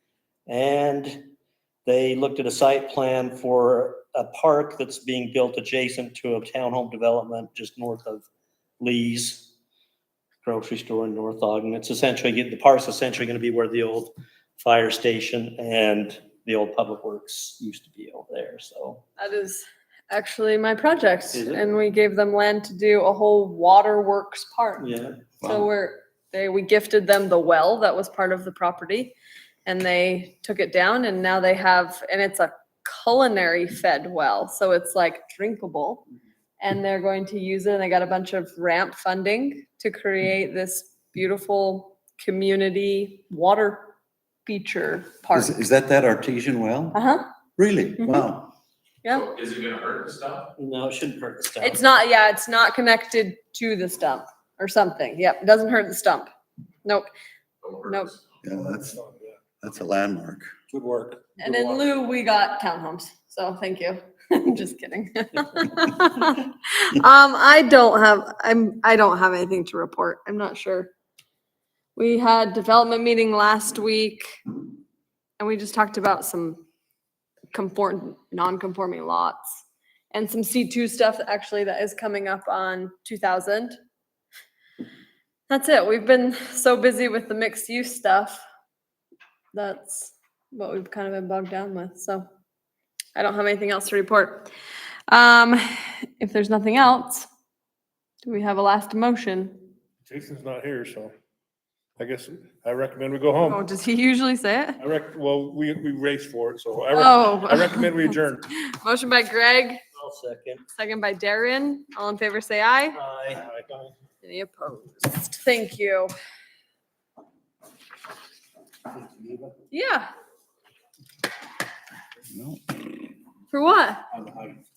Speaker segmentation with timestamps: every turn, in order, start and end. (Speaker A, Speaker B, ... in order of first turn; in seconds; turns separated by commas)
Speaker A: 0.5-1.3, Speaker A: 1.9-8.2, Speaker A: 8.8-9.5, Speaker A: 10.4-19.0, Speaker B: 19.2-24.9, Speaker A: 21.3-21.7, Speaker A: 24.8-25.2, Speaker B: 25.4-29.1, Speaker B: 29.7-36.1, Speaker B: 36.6-43.9, Speaker B: 44.5-45.6, Speaker C: 45.3-47.0, Speaker B: 46.9-47.2, Speaker C: 47.6-48.5, Speaker B: 48.0-48.3, Speaker B: 49.0-49.3, Speaker D: 49.1-50.5, Speaker A: 50.6-51.8, Speaker B: 51.6-56.3, Speaker D: 57.6-58.1, Speaker B: 57.9-58.1, Speaker C: 58.4-59.0, Speaker C: 59.6-60.5, Speaker A: 60.7-61.8, Speaker B: 61.4-70.9, Speaker B: 72.0-74.2, Speaker B: 75.4-76.6, Speaker B: 77.5-83.8, Speaker B: 85.5-88.4, Speaker B: 89.5-92.3, Speaker B: 93.2-94.5, Speaker B: 95.1-97.3, Speaker B: 98.2-99.6, Speaker E: 100.0-101.1, Speaker E: 102.0-103.7, Speaker B: 103.4-104.8, Speaker E: 104.8-108.5, Speaker B: 107.0-109.8, Speaker A: 110.0-110.6, Speaker B: 110.8-113.0, Speaker A: 112.9-113.9, Speaker E: 113.4-113.7, Speaker B: 114.2-116.1, Speaker B: 119.7-120.1, Speaker C: 122.3-122.8, Speaker B: 123.5-124.1, Speaker A: 124.2-124.5